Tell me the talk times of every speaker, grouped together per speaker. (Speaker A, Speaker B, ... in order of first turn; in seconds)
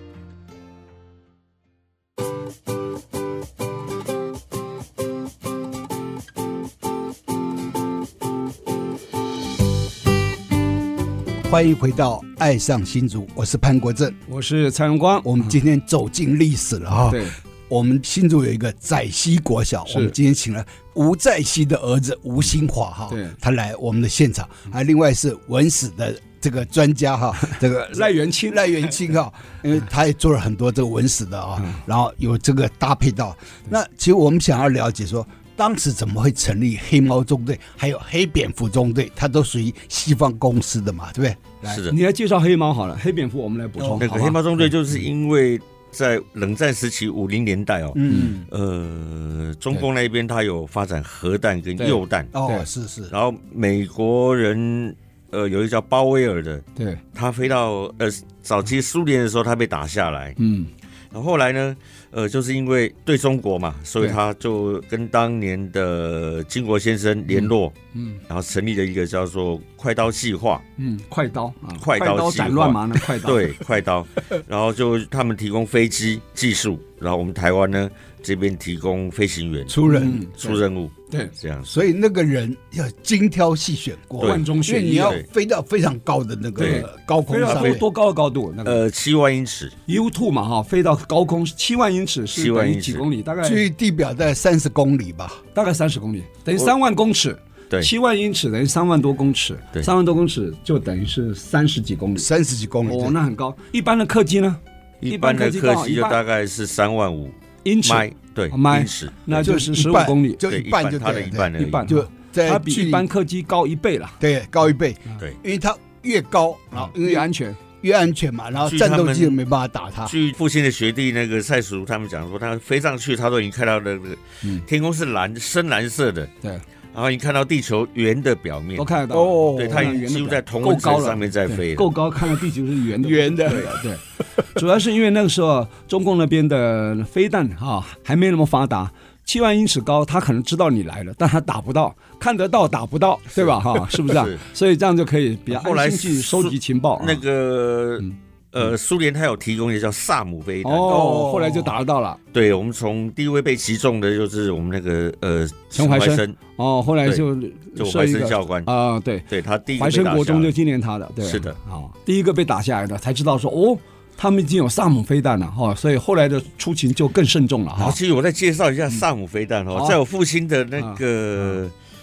Speaker A: 11.4-14.2, 15.2-41.8, 47.9-48.5, 52.3-53.1, 79.7-80.6, 81.7-87.8, 93.4-95.4, 102.2-103.2, 109.3-113.1, 114.2-117.3, 117.8-120.1, 129.1-130.0, 133.0-133.7, 150.8-151.7
Speaker B: 14.3-15.6, 17.1-17.4, 19.9-20.1, 23.1-23.4, 27.9-28.8, 41.9-44.5, 51.8-52.6, 60.4-60.7, 67.3-68.2, 70.8-73.5, 79.9-80.3, 84.2-85.2, 86.6-88.8, 89.9-93.7, 95.5-102.3, 102.8-106.2, 107.6-110.4, 111.6-114.2, 116.8-117.6, 128.8-134.0, 134.5-147.2, 150.6-152.2, 155.7-159.2, 159.8-168.0, 170.8-171.6
Speaker C: 41.6-42.0, 44.0-52.4, 53.1-60.4, 61.1-67.8, 68.3-70.6, 71.8-81.7, 84.2-85.2, 87.5-87.8, 88.6-89.8, 92.3-93.0, 105.0-109.5, 110.4-111.9, 118.6-119.4, 120.0-126.3, 126.9-129.0, 129.6-131.9, 143.3-144.4, 145.5-151.1, 152.3-156.4, 157.8-158.7, 159.3-160.5, 161.2-161.6, 167.8-171.7